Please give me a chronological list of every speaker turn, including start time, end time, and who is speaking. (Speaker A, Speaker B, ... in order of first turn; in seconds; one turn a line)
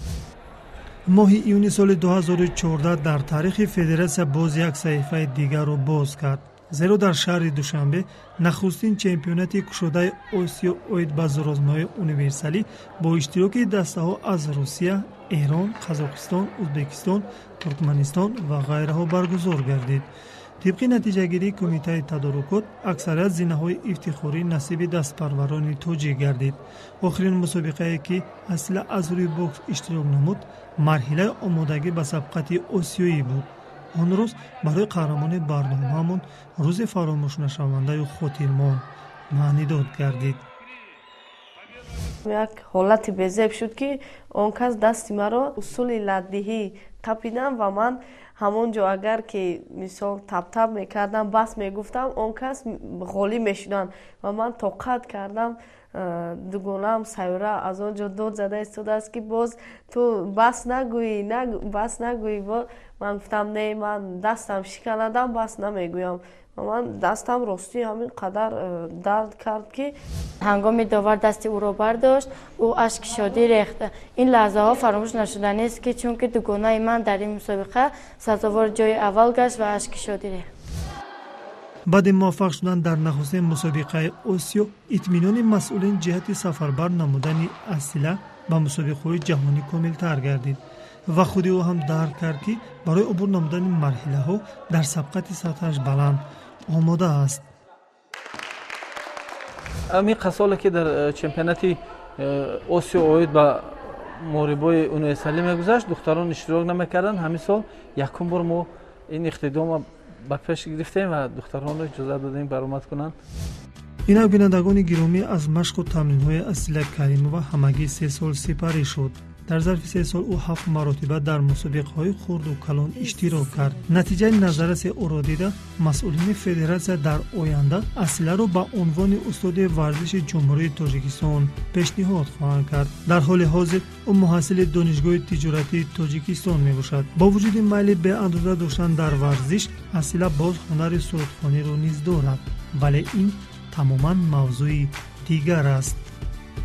Speaker A: 1.1-40.4
Speaker B: 42.2-70.0
Speaker C: 70.4-80.5
Speaker A: 81.9-97.5
Speaker D: 99.9-113.2
Speaker A: 114.1-146.1